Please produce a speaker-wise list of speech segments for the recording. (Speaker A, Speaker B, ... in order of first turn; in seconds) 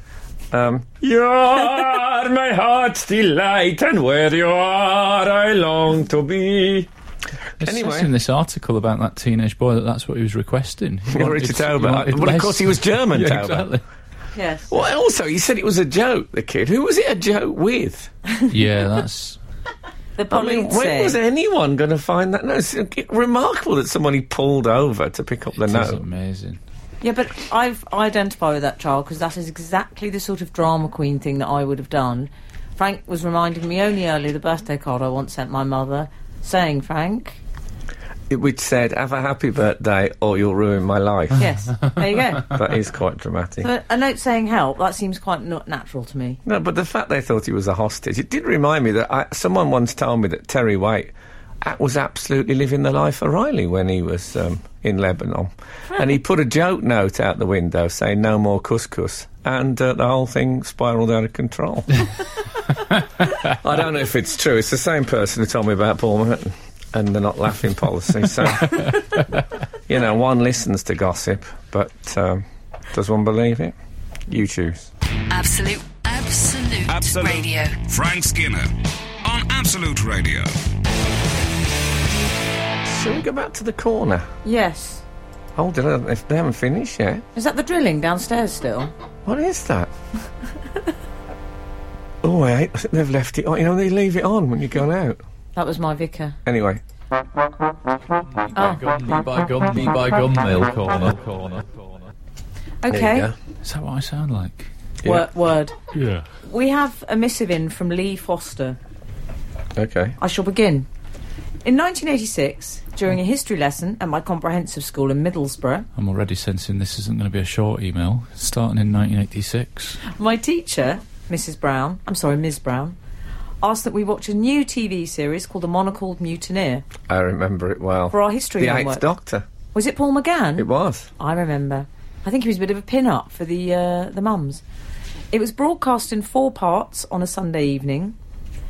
Speaker A: 0.5-6.9, 7.6-8.1, 11.1-13.7, 14.7-18.1, 20.3-26.0, 38.3-41.5, 42.4-43.7, 46.5-62.0, 63.4-69.2, 69.9-73.7, 74.3-74.9, 82.8-84.3, 85.6-87.2, 89.3-89.9, 92.2-95.2, 96.5-96.8, 102.9-103.3, 109.8-110.2, 127.1-129.4, 130.6-131.1
Speaker B: 7.6-13.8, 18.5-19.4, 25.6-26.6, 98.4-102.0, 103.6-104.7, 106.0-106.2, 116.0-120.0
Speaker C: 14.3-14.7, 20.2-21.2, 27.0-37.4, 41.4-42.5, 43.6-46.4, 84.4-85.0, 87.3-88.9, 95.5-96.4, 98.5-98.8, 102.8-103.3, 105.0-105.7, 106.4-108.8, 110.2-110.9, 111.6-115.9, 120.1-123.0, 123.6-126.8, 128.1-129.1, 129.7-134.6, 135.3-138.2
Speaker D: 75.3-77.8
Speaker E: 76.9-80.6